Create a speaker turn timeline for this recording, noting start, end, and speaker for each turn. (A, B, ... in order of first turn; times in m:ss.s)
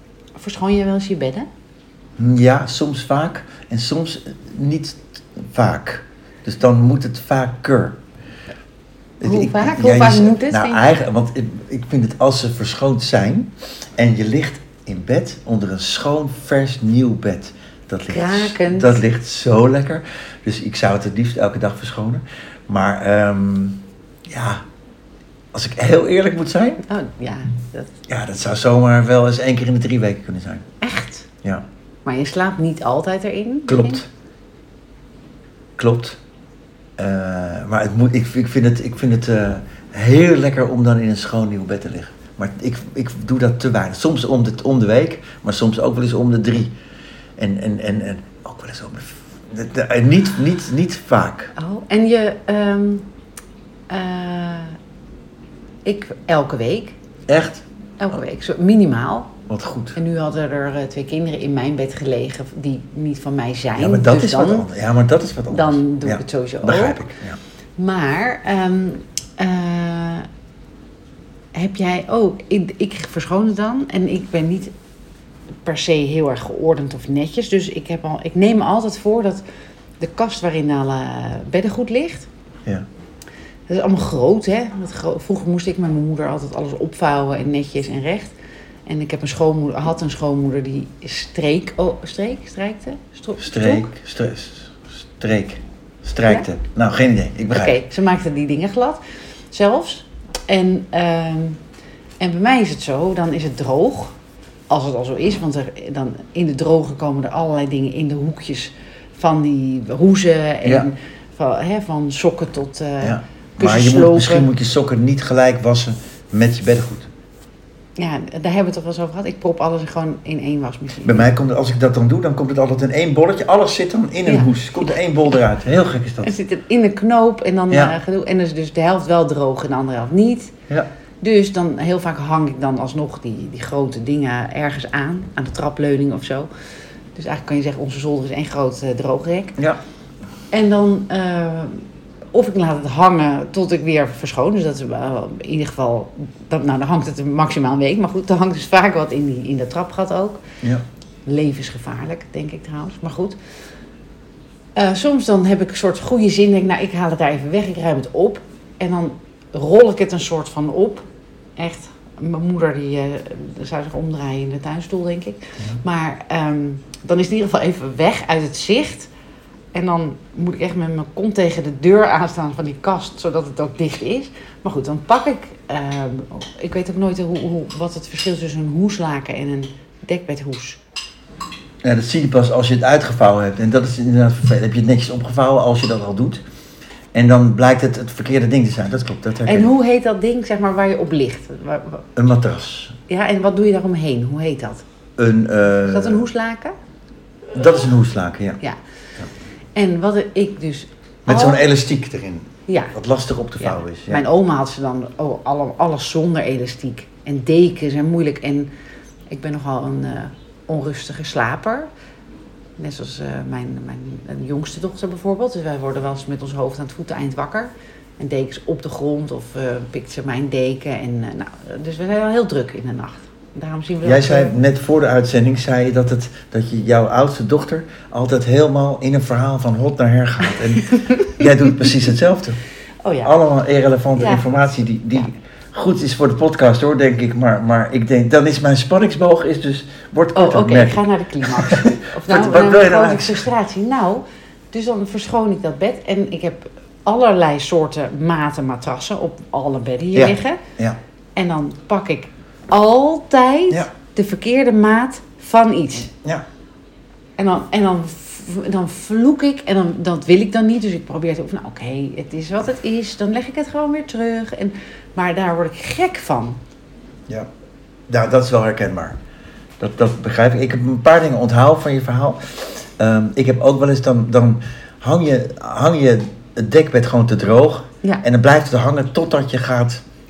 0:00.4-0:01.5 A
0:02.2-0:08.0 B
0:09.2-0:24.6 B
0:09.2-0:10.8 A
0:18.1-0:19.0 A
0:25.5-0:26.8 B
0:26.8-0:27.9 A
0:28.1-0:30.6 B
0:30.8-0:31.3 A
0:32.0-0:34.0 A
0:33.7-0:34.1 B
0:35.8-0:36.2 B
0:37.0-0:46.7 B
0:47.4-0:51.5 B
0:51.6-0:53.1 A
0:53.9-0:54.8 A
0:55.8-0:57.0 A
0:57.3-0:57.6 B
0:58.0-0:59.3 A
0:59.5-1:00.0 B
1:00.0-1:04.7 A
1:03.8-1:07.4 B
1:05.5-1:07.0 A
1:07.8-1:10.3 A
1:11.5-1:14.7 A
1:15.6-1:19.4 A
1:20.0-1:22.3 A
1:23.7-1:28.3 A
1:28.9-1:33.9 A
1:33.4-1:37.8 B
1:37.5-1:39.0 A
1:39.5-1:41.6 A
1:42.2-1:44.2 A
1:44.7-1:54.5 A
1:53.0-1:57.1 B
1:58.0-2:01.3 A
2:01.0-2:06.3 B
2:06.2-2:10.5 A
2:07.7-2:08.0 B
2:11.2-2:16.5 A
2:17.2-2:19.6 A
2:20.5-2:30.4 A
2:31.3-2:33.4 A
2:34.8-2:41.0 A
2:41.6-2:49.1 A
2:49.7-3:00.8 A
3:01.8-3:06.4 B
3:07.1-3:09.7 B
3:09.4-3:12.0 A
3:12.2-3:13.0 B
3:13.1-3:14.8 A
3:15.2-3:16.2 B
3:15.9-3:16.8 A
3:17.5-3:18.6 B
3:19.8-3:21.6 A
3:21.3-3:24.2 B
3:22.7-3:23.0 A
3:23.6-3:28.7 A
3:29.3-3:31.9 A
3:32.8-3:44.6 A
3:44.0-3:52.6 B
3:53.0-3:53.3 A
3:53.2-4:03.5 B
3:54.2-3:54.4 A
4:00.4-4:10.6 A
4:10.2-4:11.0 B
4:11.4-4:16.1 A
4:17.4-4:26.6 A
4:28.1-4:29.2 B
4:29.8-4:40.0 B